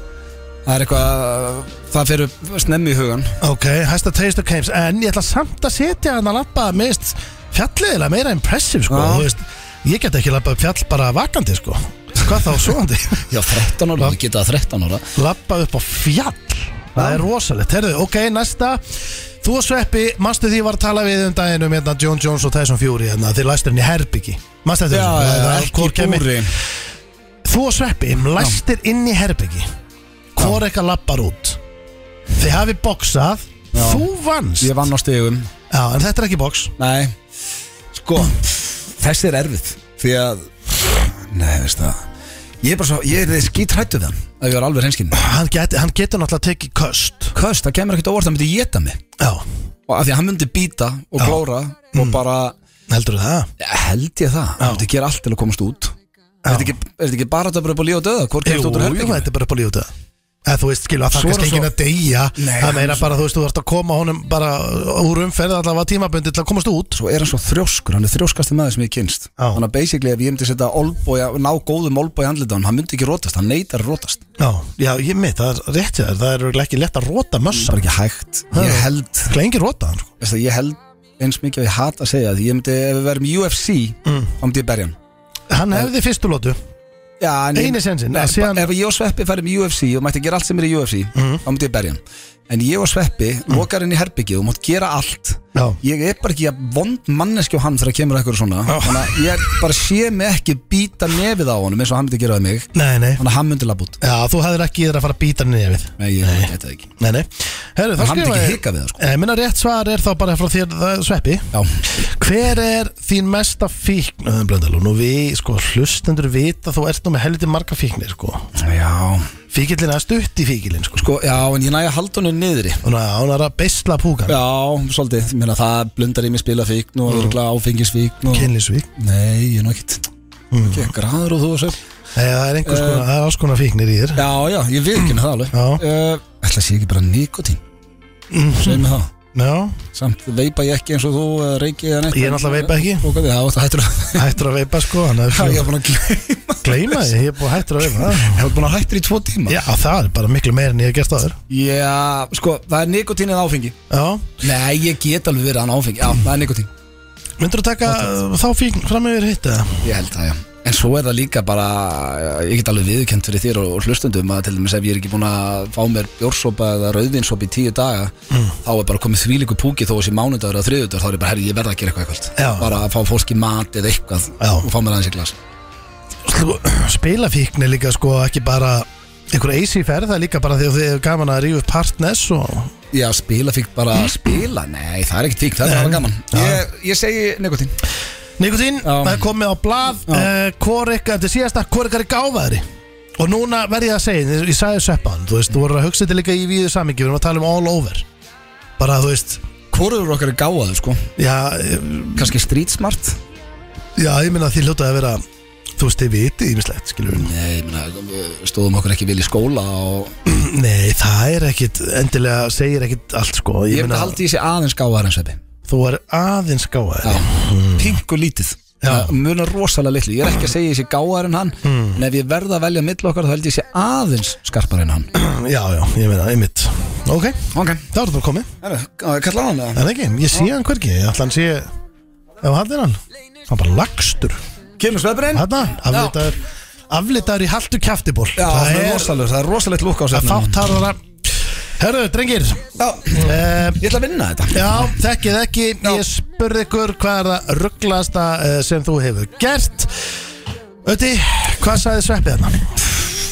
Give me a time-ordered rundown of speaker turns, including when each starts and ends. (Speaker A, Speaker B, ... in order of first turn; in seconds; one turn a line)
Speaker A: 0.7-3.3
Speaker B: 3.4-13.3
Speaker A: 8.9-9.3
Speaker A: 13.3-15.1
Speaker B: 15.2-26.4
Speaker A: 16.9-17.2
Speaker A: 24.9-26.5
Speaker B: 27.4-29.7
Speaker B: 30.4-31.6
Speaker B: 32.3-34.8
Speaker A: 33.7-34.1
Speaker A: 34.6-35.5
Speaker B: 35.7-36.7
Speaker A: 36.8-37.1
Speaker A: 37.9-42.0
Speaker A: 42.6-45.2
Speaker B: 45.1-47.3
Speaker A: 47.3-49.0
Speaker B: 49.2-49.4
Speaker A: 49.9-52.5
Speaker B: 51.9-52.2
Speaker B: 52.9-53.5
Speaker A: 53.6-55.9
Speaker B: 54.6-54.9
Speaker B: 56.4-56.7
Speaker A: 56.5-59.3
Speaker B: 58.4-59.9
Speaker B: 60.5-67.0
Speaker A: 61.1-61.7
Speaker A: 62.4-63.1
Speaker A: 67.0-74.2
Speaker B: 74.4-77.8
Speaker A: 77.6-79.3
Speaker B: 78.5-80.1
Speaker A: 80.2-85.0
Speaker B: 84.0-84.3
Speaker B: 85.5-86.6
Speaker A: 87.2-104.0
Speaker B: 87.5-88.7
Speaker B: 91.2-91.4
Speaker B: 98.7-99.2
Speaker B: 102.7-103.2
Speaker B: 104.0-118.5
Speaker A: 106.0-106.9
Speaker A: 108.0-109.0
Speaker A: 111.5-111.8
Speaker A: 118.6-119.3
Speaker B: 119.5-121.0
Speaker A: 121.0-122.8
Speaker B: 122.8-124.4
Speaker A: 124.3-130.0
Speaker B: 127.1-127.4
Speaker B: 128.3-128.9
Speaker B: 130.5-130.9
Speaker A: 130.6-131.8
Speaker B: 132.1-134.2
Speaker A: 132.7-133.1
Speaker A: 134.2-137.6
Speaker B: 135.5-135.8
Speaker B: 138.3-139.8
Speaker A: 138.6-139.1
Speaker A: 139.9-144.4
Speaker B: 142.1-143.1
Speaker B: 144.1-145.7
Speaker A: 145.3-147.1
Speaker B: 146.6-148.5
Speaker A: 147.9-149.6
Speaker B: 149.5-151.4
Speaker A: 151.5-153.8
Speaker B: 153.9-154.4
Speaker A: 154.4-156.7
Speaker B: 157.4-159.8
Speaker A: 159.8-168.1
Speaker A: 168.6-175.3
Speaker B: 172.4-172.7
Speaker B: 174.4-174.7
Speaker B: 176.2-182.7
Speaker A: 182.9-187.7
Speaker B: 185.6-186.6
Speaker B: 188.4-192.6
Speaker A: 188.8-189.3
Speaker B: 193.2-198.0
Speaker B: 198.8-199.4
Speaker A: 199.7-201.1
Speaker B: 201.2-202.3
Speaker A: 202.2-203.2
Speaker B: 204.0-205.2
Speaker B: 205.8-207.3
Speaker A: 207.1-210.1
Speaker B: 210.2-214.2
Speaker A: 213.7-215.4
Speaker B: 215.7-218.0
Speaker A: 217.0-225.1
Speaker B: 218.8-219.1
Speaker B: 221.6-222.0
Speaker B: 225.1-228.5
Speaker A: 227.5-227.8
Speaker A: 228.6-229.8
Speaker B: 229.7-231.7
Speaker B: 232.4-234.4
Speaker A: 234.8-236.2
Speaker B: 235.3-236.4
Speaker B: 236.9-239.2
Speaker A: 238.4-240.6
Speaker B: 240.1-241.3
Speaker B: 241.8-243.8
Speaker A: 242.8-245.0
Speaker B: 244.5-250.0
Speaker B: 250.8-252.7